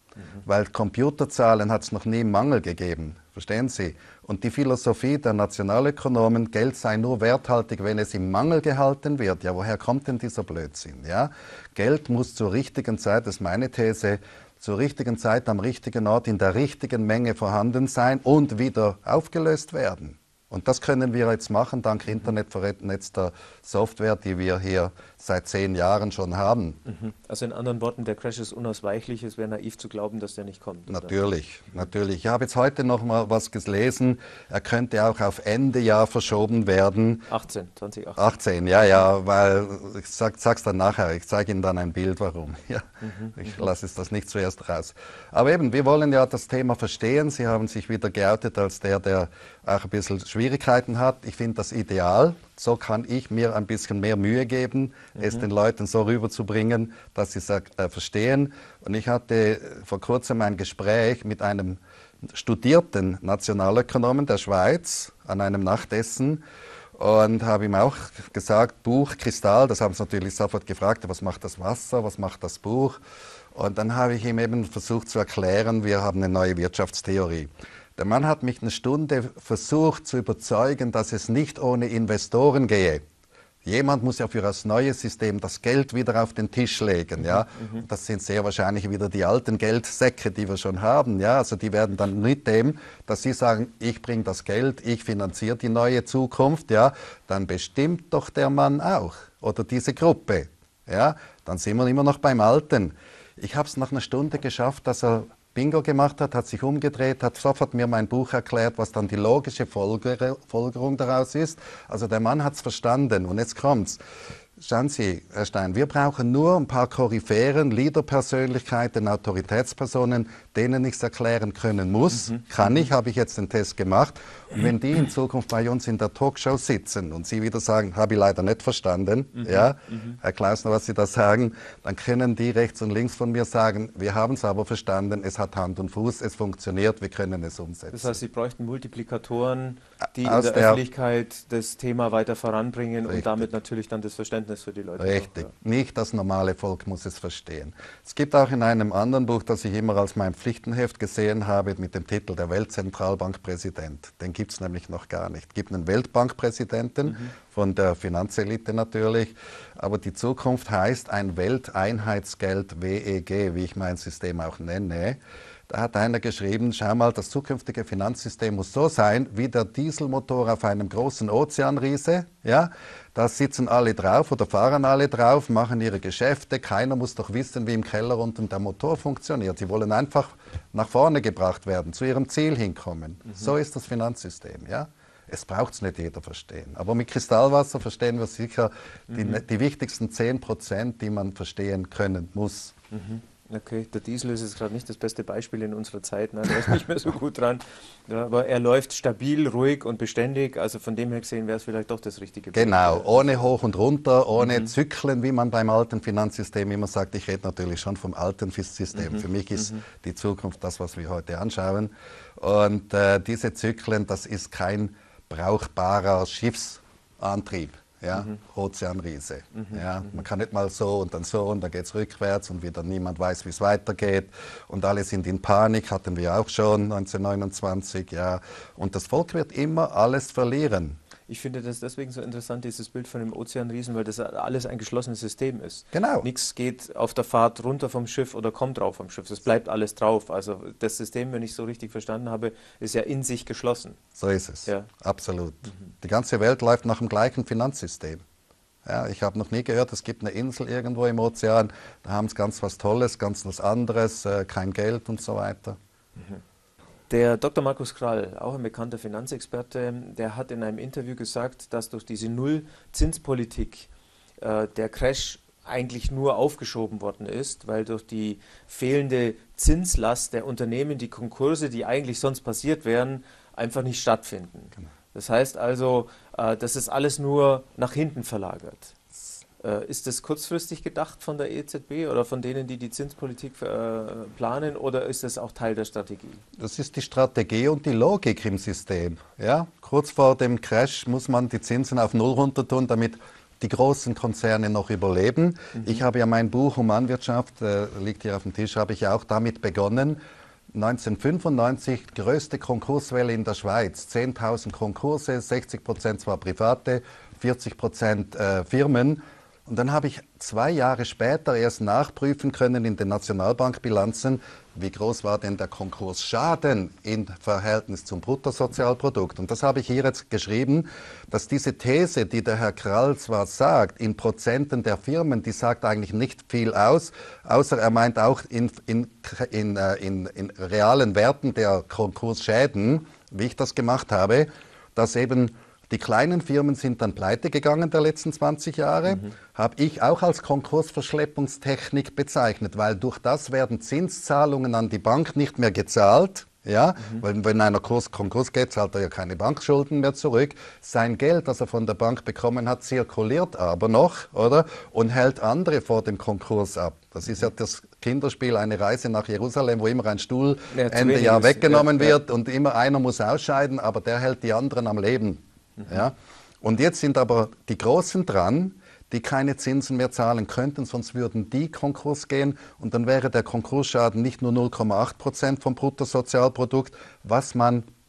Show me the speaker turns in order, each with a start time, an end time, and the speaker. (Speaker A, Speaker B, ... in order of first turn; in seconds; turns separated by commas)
Speaker A: 0.5-26.8, Speaker B: 26.9-31.2, Speaker A: 30.9-37.3, Speaker B: 37.3-39.0, Speaker A: 38.2-66.4, Speaker B: 43.0-43.7, Speaker B: 55.2-55.5, Speaker A: 67.0-73.0, Speaker A: 73.5-83.0, Speaker A: 83.7-114.0, Speaker B: 87.2-87.8, Speaker A: 114.6-138.2, Speaker B: 122.1-122.9, Speaker B: 129.4-130.2, Speaker B: 137.9-145.5, Speaker A: 140.2-140.8, Speaker A: 143.1-143.5, Speaker A: 145.0-192.8, Speaker B: 157.1-157.3, Speaker B: 189.1-189.4, Speaker B: 192.9-203.5, Speaker A: 202.5-231.0, Speaker B: 204.4-204.7, Speaker B: 208.9-209.8, Speaker B: 219.5-220.2, Speaker B: 231.3-244.0, Speaker A: 235.9-236.3, Speaker A: 244.2-248.2, Speaker A: 248.8-255.8, Speaker B: 257.1-263.9, Speaker B: 264.4-278.9, Speaker B: 279.6-286.4, Speaker A: 286.6-300.2, Speaker B: 295.8-296.0, Speaker A: 300.7-377.9, Speaker B: 339.1-339.3, Speaker B: 347.0-347.2, Speaker B: 360.7-362.2, Speaker B: 365.8-366.1